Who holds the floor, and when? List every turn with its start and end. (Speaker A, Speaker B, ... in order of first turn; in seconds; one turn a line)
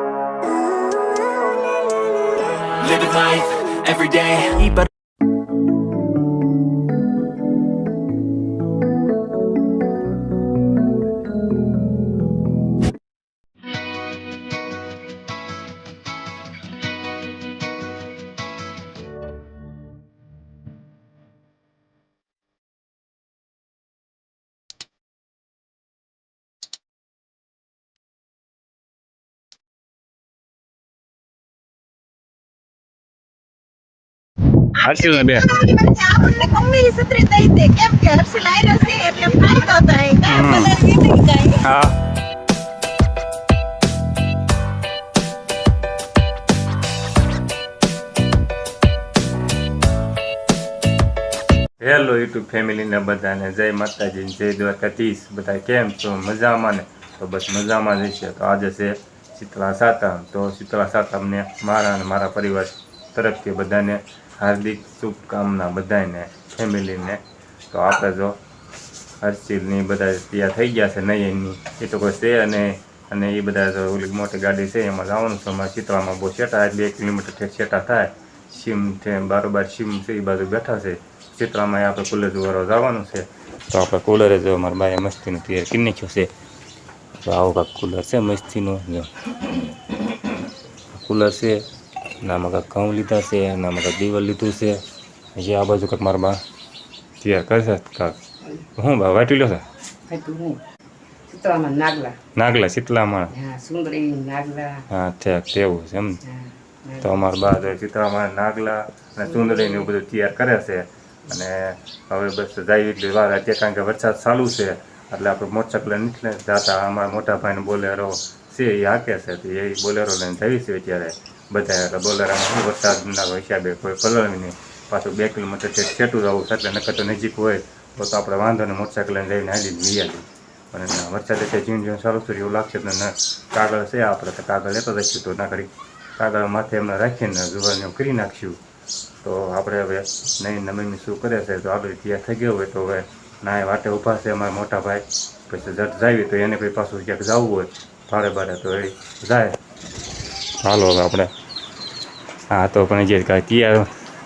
Speaker A: 2.8-4.9
Speaker B: 34.8-35.5
Speaker C: 35.4-41.6
Speaker B: 40.2-40.7
Speaker B: 41.6-41.9
Speaker B: 51.8-68.3
Speaker B: 69.2-86.3
Speaker B: 87.2-89.1
Speaker B: 90.9-91.6
Speaker B: 92.2-94.8
Speaker B: 95.3-96.4
Speaker B: 97.2-98.2
Speaker B: 98.8-99.6
Speaker D: 100.1-100.6
Speaker D: 101.3-102.2
Speaker B: 102.3-103.3
Speaker D: 103.3-104.8
Speaker B: 104.9-106.2
Speaker D: 106.2-107.2
Speaker B: 107.0-138.6
Speaker D: 109.2-109.9
Speaker B: 139.2-149.6
Speaker B: 150.6-151.3
Speaker B: 152.5-153.9